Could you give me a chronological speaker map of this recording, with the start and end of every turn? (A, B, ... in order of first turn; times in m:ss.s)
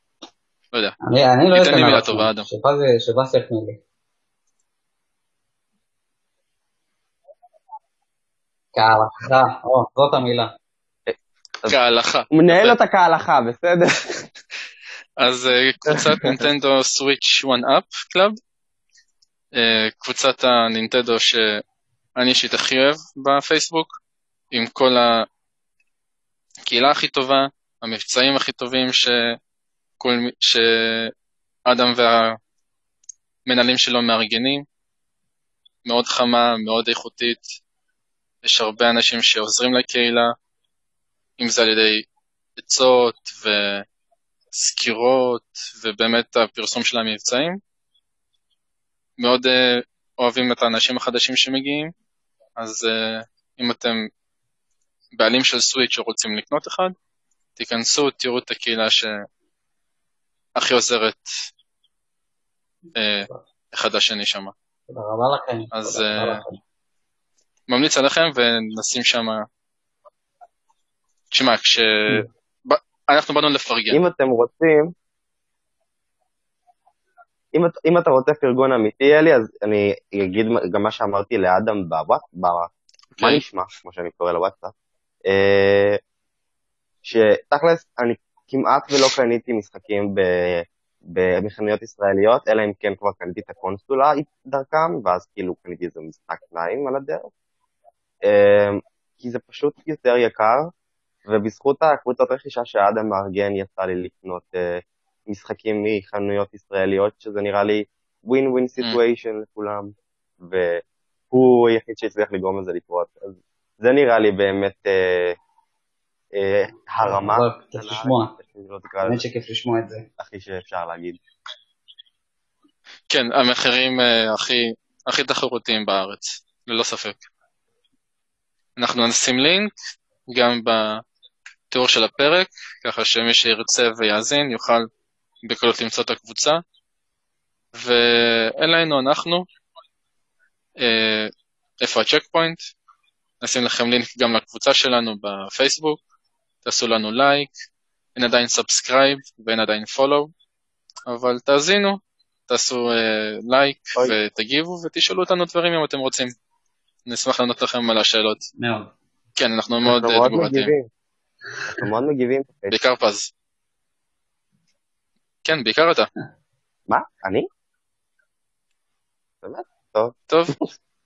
0:01.0-0:03.8 A
0:01.5-0:02.5 B
0:08.8-0:10.6 A
0:11.1-0:11.8 C
0:11.7-0:12.8 B
0:12.3-0:14.3 C
0:15.2-0:18.4 B
0:15.9-0:16.4 C
0:19.5-0:21.6 B
0:22.2-0:24.0 B
0:24.5-0:25.3 B
0:26.7-0:29.4 B
0:30.0-0:31.1 B
0:31.7-0:32.4 B
0:33.5-0:34.7 B
0:35.8-0:37.4 B
0:38.4-0:40.3 B
0:41.4-0:42.1 B
0:42.6-0:43.9 B
0:44.5-0:47.6 B
0:49.2-0:51.9 B
0:52.6-0:54.1 B
0:55.2-0:57.0 B
0:57.6-0:59.2 B
1:00.6-1:01.3 B
1:03.0-1:04.5 B
1:04.9-1:06.6 A
1:05.7-1:06.4 B
1:07.7-1:09.5 B
1:11.3-1:14.0 B
1:13.9-1:14.9 C
1:17.5-1:24.7 C
1:23.2-1:23.4 B
1:25.3-1:26.0 C
1:27.0-1:37.3 C
1:38.2-1:40.7 C
1:41.3-1:55.4 C
1:56.4-1:59.2 C
1:57.0-1:58.4 A
1:59.0-2:00.1 A
2:00.2-2:01.2 C
2:03.1-2:07.2 B
2:08.8-2:09.7 B
2:10.3-2:11.0 B
2:11.7-2:14.9 B
2:15.4-2:16.6 B
2:17.7-2:19.4 B
2:20.8-2:22.6 B
2:23.4-2:26.0 B
2:26.6-2:27.5 B
2:28.2-2:30.3 B
2:31.1-2:36.3 B
2:37.1-2:38.4 B
2:38.6-2:38.9 A
2:39.4-2:40.7 B
2:39.8-2:40.9 C
2:41.7-2:42.8 C
2:42.7-2:43.3 B
2:45.4-2:46.1 B
2:46.9-2:47.5 C
2:49.4-2:50.1 C
2:50.3-2:50.6 B